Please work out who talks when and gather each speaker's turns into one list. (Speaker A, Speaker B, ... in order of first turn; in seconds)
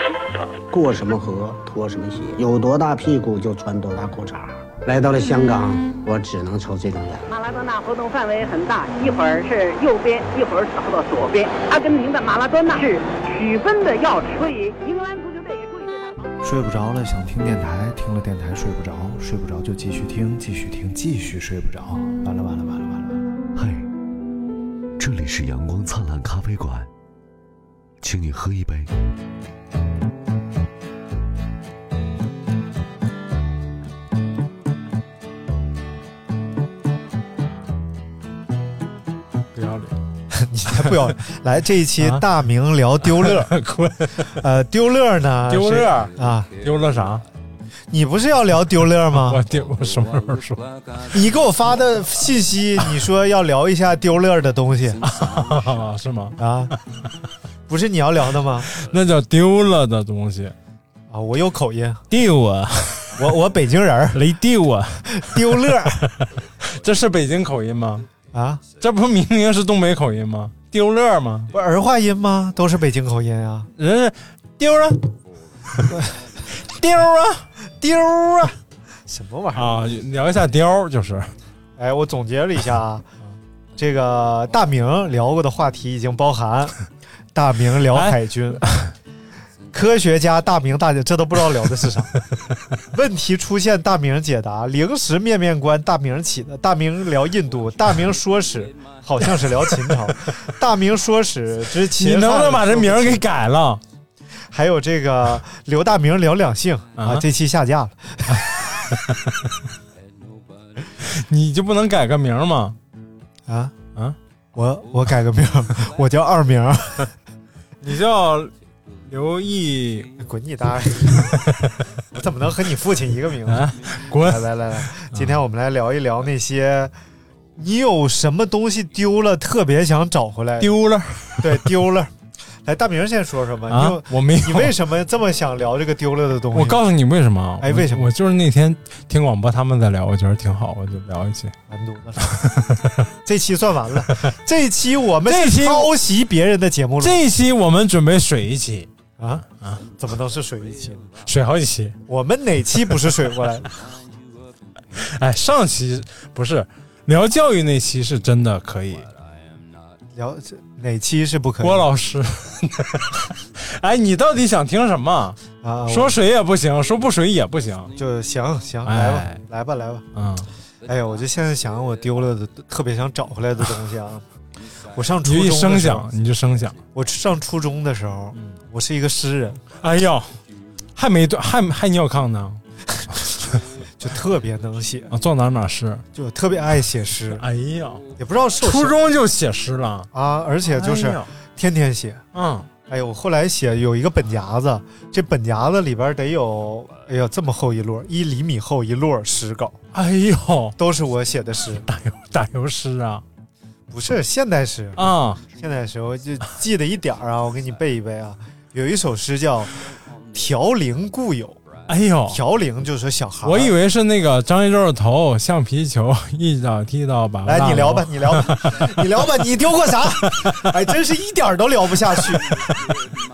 Speaker A: 0.7-7.3
Speaker B: 7.3-16.4
Speaker C: 16.4-23.2
Speaker D: 23.6-23.9, 25.0-26.9, 28.0-28.9
Speaker E: 39.5-39.9, 42.0-42.3, 43.0-44.4, 45.5-47.2, 49.1-50.7, 55.0-56.4, 58.7-60.5, 62.1-63.2, 64.1-68.1, 68.8-71.5, 73.8-75.1, 76.5-77.5, 79.5-81.3, 87.9-88.9, 99.7-100.4, 101.9-103.8, 107.0-107.3, 108.3-109.3, 111.0-112.8, 117.8-118.5, 119.1-120.1, 121.2-121.8, 123.5-124.5, 125.0-125.4, 130.6-131.8, 133.7-134.8, 136.5-141.5, 142.3-143.0, 145.2-145.9, 147.0-148.9, 149.6-149.8, 151.2-152.0, 155.0-159.1, 161.6-167.9, 168.8-169.4, 170.2-170.5, 175.2-176.8, 179.8-180.3, 180.9-183.5, 185.1-186.0, 187.3-188.0, 188.6-190.1, 190.7-191.3, 192.3-192.7, 199.9-200.8, 201.9-203.2, 205.0-205.4, 211.9-212.4, 213.4-219.0, 220.3-220.7, 222.3-223.0
Speaker F: 40.3-43.5, 44.3-46.5, 47.9-49.4, 51.0-55.0, 56.4-56.8, 57.7-58.7, 61.1-62.0, 63.2-64.2, 65.1-66.0, 68.3-68.6, 71.5-73.7, 75.9-76.1, 77.8-78.5, 79.1-79.8, 81.8-83.1, 83.8-86.8, 87.3-88.6, 89.7-92.1, 92.9-103.2, 104.5-108.5, 113.5-113.8, 114.5-117.1, 120.2-121.3, 122.1-126.9, 127.6-130.8, 131.4-132.1, 132.7-136.8, 137.6-138.1, 141.7-142.3, 143.2-147.2, 149.2-149.4, 150.0-151.1, 152.1-153.7, 160.2-161.9, 165.6-166.2, 168.0-170.1, 170.8-174.2, 174.9-176.1, 176.9-179.6, 184.0-185.1, 186.1-187.4, 188.2-189.0, 190.1-192.2, 192.9-199.8, 200.8-201.9, 203.9-209.7, 210.3-211.6, 212.3-213.8, 217.4-222.5